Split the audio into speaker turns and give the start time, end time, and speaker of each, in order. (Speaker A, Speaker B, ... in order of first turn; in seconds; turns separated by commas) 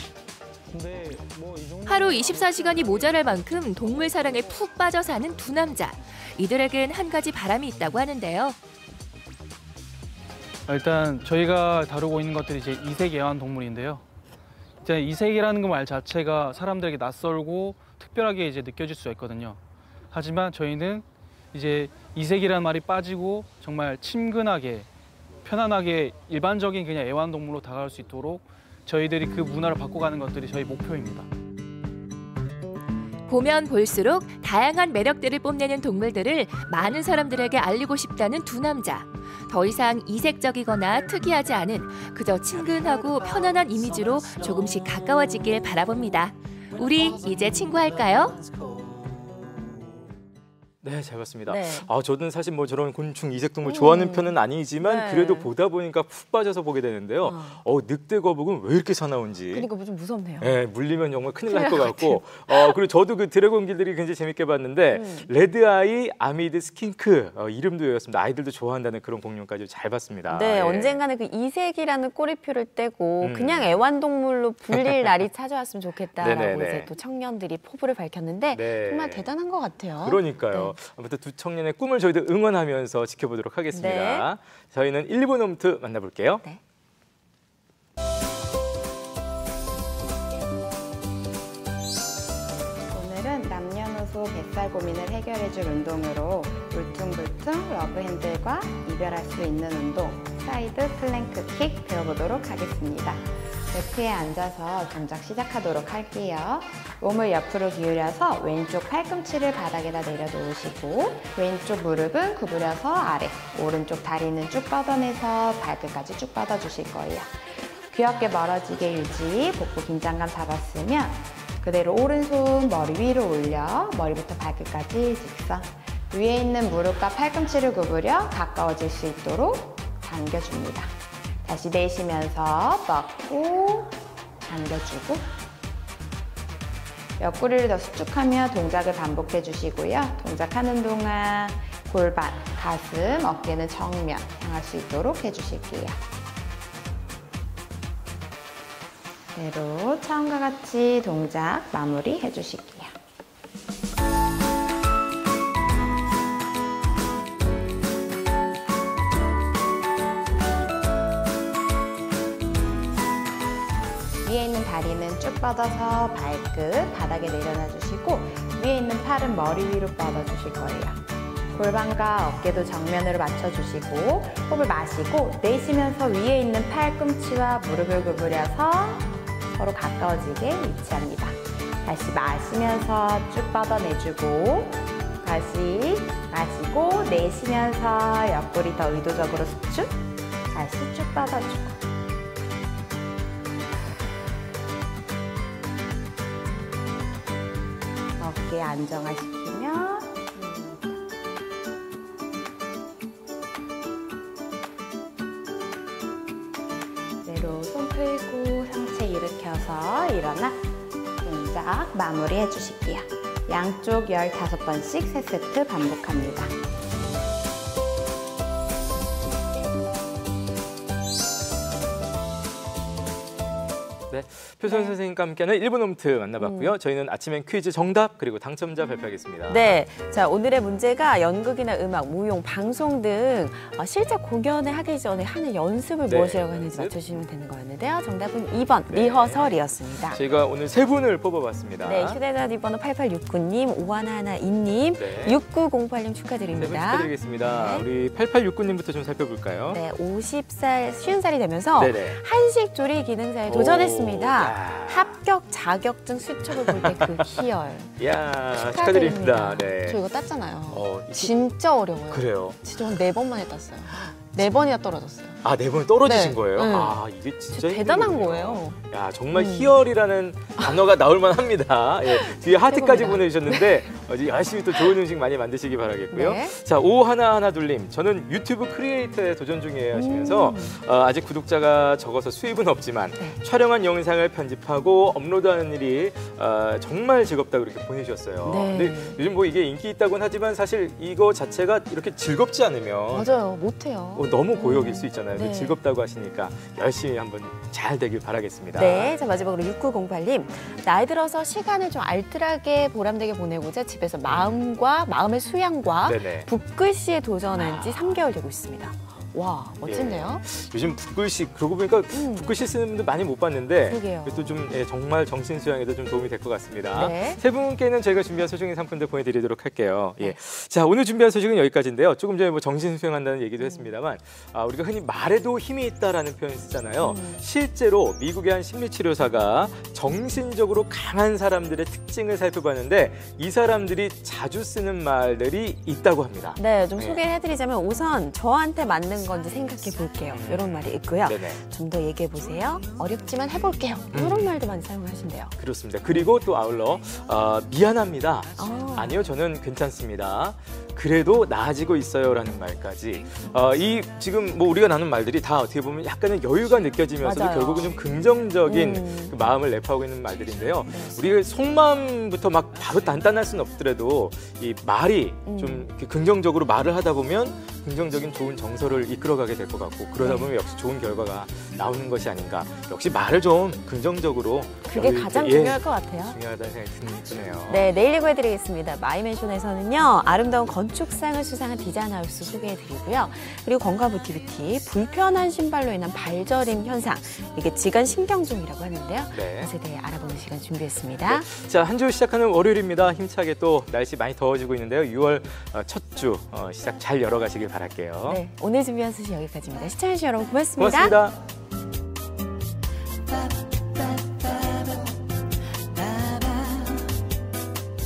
Speaker A: 0.7-3.2, Speaker B: 1.9-8.6, Speaker A: 10.7-14.0, Speaker A: 14.8-19.6, Speaker A: 20.1-24.9, Speaker A: 25.4-31.3, Speaker B: 33.3-48.4, Speaker C: 50.8-59.7, Speaker D: 51.5-51.9, Speaker D: 53.6-55.5, Speaker D: 57.2-57.6, Speaker D: 59.5-60.6, Speaker C: 60.4-71.0, Speaker D: 61.5-62.8, Speaker D: 64.9-65.3, Speaker D: 70.3-80.8, Speaker C: 73.2-73.8, Speaker C: 74.7-75.1, Speaker C: 76.2-76.9, Speaker C: 78.5-79.3, Speaker C: 80.0-86.4, Speaker D: 83.7-84.3, Speaker E: 92.9-135.3, Speaker E: 137.2-146.0, Speaker E: 149.3-152.9, Speaker E: 164.2-171.0, Speaker E: 171.5-191.8, Speaker E: 198.2-201.0, Speaker E: 207.2-210.6, Speaker E: 211.2-216.5, Speaker C: 224.1-229.8, Speaker D: 224.6-225.0, Speaker D: 226.4-226.7, Speaker D: 229.5-240.2, Speaker C: 236.1-237.0, Speaker C: 238.9-242.2, Speaker D: 241.8-247.9, Speaker C: 245.0-245.4, Speaker C: 246.5-249.8, Speaker D: 249.7-258.0, Speaker C: 251.8-252.2, Speaker C: 253.4-255.1, Speaker C: 256.5-257.4, Speaker C: 258.0-260.0, Speaker D: 258.5-265.4, Speaker C: 260.7-261.4, Speaker C: 262.1-262.6, Speaker C: 265.4-293.3, Speaker D: 266.0-267.0, Speaker D: 267.5-268.8, Speaker D: 269.3-269.8, Speaker D: 272.1-273.8, Speaker D: 276.1-276.5, Speaker D: 279.9-280.8, Speaker D: 288.4-289.2, Speaker D: 293.1-295.8, Speaker C: 294.1-299.2, Speaker D: 298.7-310.4, Speaker C: 304.2-304.5, Speaker C: 306.0-306.5, Speaker C: 307.5-308.2, Speaker C: 309.8-337.2, Speaker D: 312.1-312.5, Speaker D: 313.8-314.6, Speaker D: 316.9-317.4, Speaker D: 323.6-323.9, Speaker D: 327.0-327.4, Speaker D: 336.6-345.5, Speaker C: 340.3-341.6, Speaker C: 344.1-344.6, Speaker C: 345.6-377.9, Speaker D: 348.6-349.2, Speaker D: 353.4-353.9, Speaker D: 357.2-358.0, Speaker D: 358.6-359.4, Speaker D: 360.8-361.2, Speaker D: 365.4-365.9, Speaker D: 370.2-370.5, Speaker D: 374.9-376.4, Speaker D: 377.7-391.4, Speaker C: 389.3-389.7, Speaker C: 391.3-398.4, Speaker D: 398.2-401.2, Speaker C: 400.8-401.4